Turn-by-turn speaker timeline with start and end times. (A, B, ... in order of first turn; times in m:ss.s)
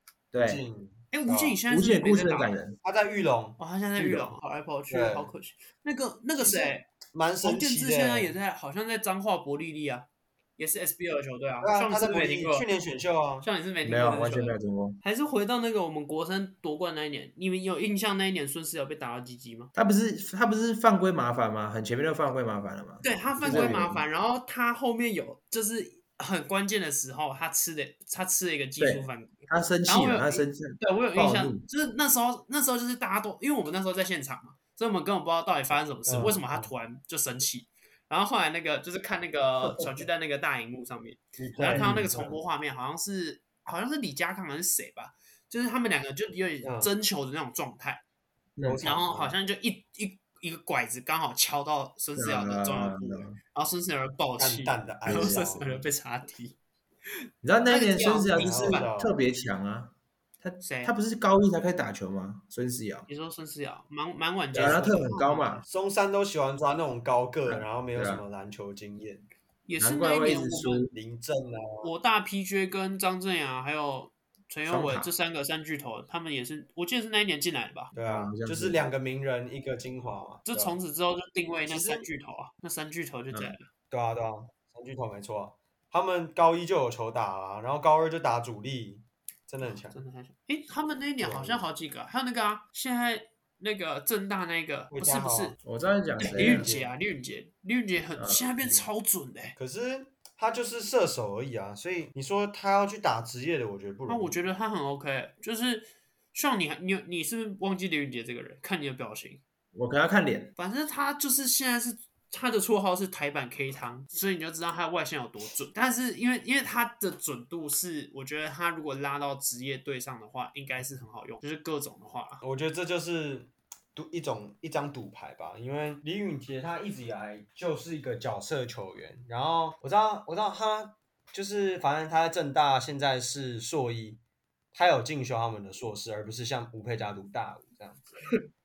0:00.3-0:00.6 A
0:00.3-0:01.6 B
0:01.1-0:02.6 C
0:01.7-0:02.8 A
0:02.8-0:04.3 B
0:03.6-0:06.8 C
0:04.9-0:05.3 B
0:06.4-0:08.3 B
0:07.4-0:12.7 C
0:11.6-0:13.5 B
0:13.4-0:19.7 C
0:13.8-0:15.0 A
0:19.7-0:24.0 A
0:23.0-0:48.0 C
0:23.4-0:23.8 B
0:28.8-0:31.6 A
0:36.0-0:36.7 B
0:39.6-0:40.0 B
0:41.4-0:42.4 B
0:41.7-0:42.1 A
0:46.6-0:46.9 B
0:48.6-0:48.8 A
0:48.6-0:49.4 B
0:48.8-0:56.6 C
0:52.2-0:53.4 A
0:54.4-0:55.9 B
0:57.4-1:03.1 A
0:57.7-0:58.9 C
0:58.3-0:59.1 B
1:00.6-1:00.9 C
1:03.1-1:05.6 C
1:04.5-1:04.8 B
1:04.5-1:05.6 A
1:05.7-1:09.3 B
1:07.4-1:08.2 A
1:09.6-1:10.9 C
1:09.8-1:10.9 A
1:10.9-1:11.9 B
1:11.8-1:17.9 C
1:14.7-1:15.1 A
1:17.9-1:20.8 B
1:18.0-1:18.8 A
1:20.5-1:23.7 C
1:21.7-1:22.0 B
1:23.9-1:30.0 B
1:29.9-1:35.6 C
1:31.2-1:31.7 B
1:34.9-1:35.6 B
1:35.6-1:36.7 A
1:36.2-1:39.6 C
1:36.2-1:36.9 B
1:38.2-1:38.4 A
1:39.6-1:44.4 B
1:44.1-1:49.4 C
1:49.7-1:50.5 A
1:50.6-2:02.4 C
2:02.4-2:14.2 B
2:14.7-2:18.2 B